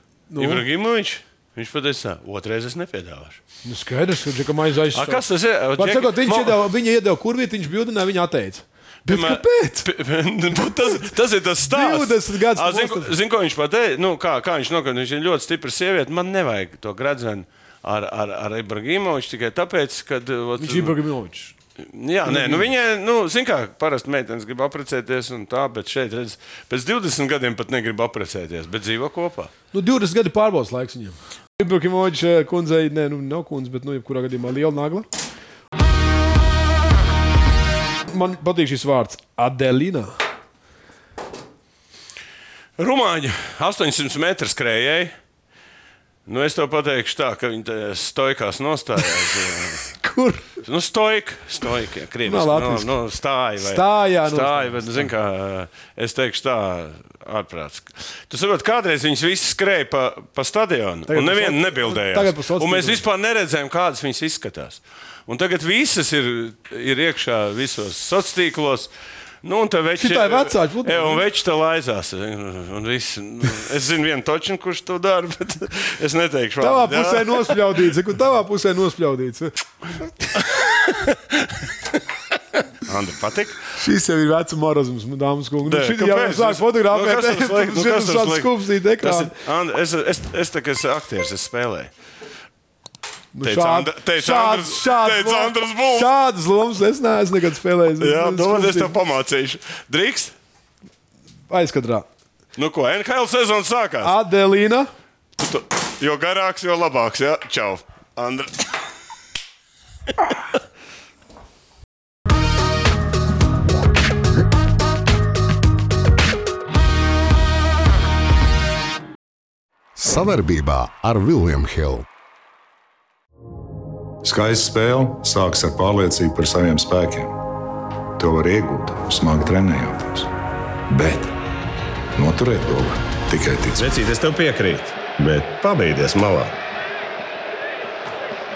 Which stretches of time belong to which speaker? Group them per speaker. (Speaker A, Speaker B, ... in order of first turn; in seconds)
Speaker A: 0.3-0.6, 3.6-5.2, 5.8-9.9, 11.7-13.1, 20.6-21.5, 22.2-22.7, 29.7-35.1, 38.1-40.1, 49.9-50.5, 52.2-52.9, 53.6-55.1, 61.1-63.0, 70.0-71.2, 76.6-80.3, 83.8-89.3, 93.3-98.9, 101.5-102.1, 104.0-104.9
Speaker B: 0.4-3.4, 4.9-6.6, 9.1-20.9, 21.8-29.5, 42.8-45.1, 46.2-49.9, 50.6-68.9, 69.4-77.6, 80.4-81.7, 82.7-83.7, 85.7-91.9, 93.4-96.1, 98.0-100.3, 102.6-104.1, 105.4-108.8
Speaker C: 120.0-122.1
Speaker D: 124.2-127.4, 128.2-130.3, 130.9-131.3, 132.1-133.9
Speaker E: 133.8-136.6